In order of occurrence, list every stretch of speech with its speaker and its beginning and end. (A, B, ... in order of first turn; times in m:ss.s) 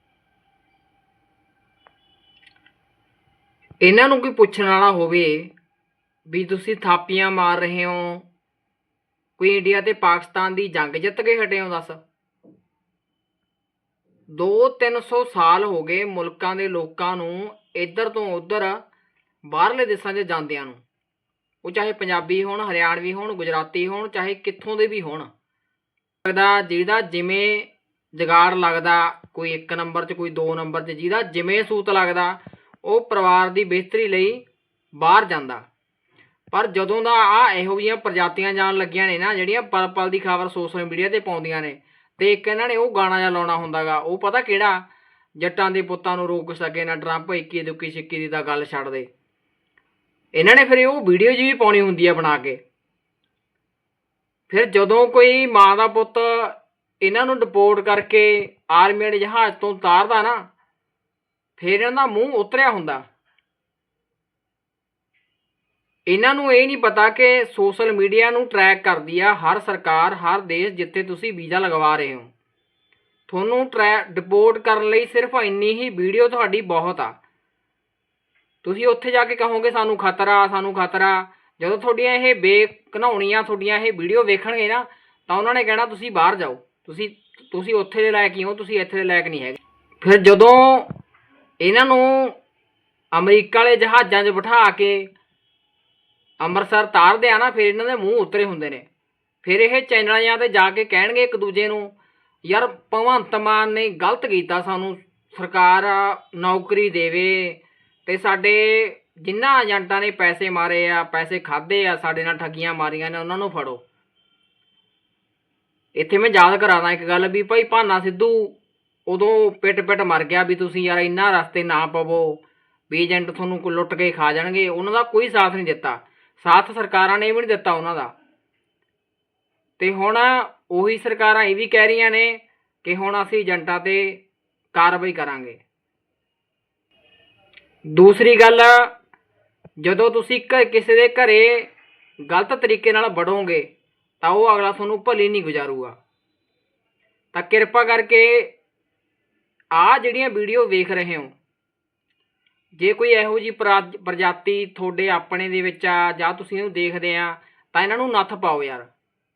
0:03.8-0:05.5 A
0:06.3-0:08.2 A
0:09.4-0:12.0 A
0:14.3-0:18.8 A
0:19.4-0:20.8 A
0:21.6-0:25.3 A
0:26.2-0:34.4 A
0:35.0-0:35.7 A
0:36.5-0:44.8 A
0:45.4-0:49.1 A
0:50.3-0:52.6 A
0:54.5-1:00.5 A
1:01.6-1:03.0 A
1:06.1-1:12.3 A
1:13.3-1:17.2 A
1:18.6-1:30.9 A
1:31.6-1:32.4 A
1:33.1-1:35.1 A
1:36.4-1:38.9 A
1:39.4-1:41.9 A
1:42.4-1:53.8 A
1:55.9-1:58.6 A
1:59.1-2:08.1 A
2:09.8-2:14.2 A
2:14.7-2:15.6 A
2:17.9-2:18.9 A
2:19.8-2:21.7 A
2:22.3-2:23.7 A
2:24.2-2:26.0 A
2:27.3-2:28.5 A
2:29.7-2:31.4 A
2:32.8-2:38.9 A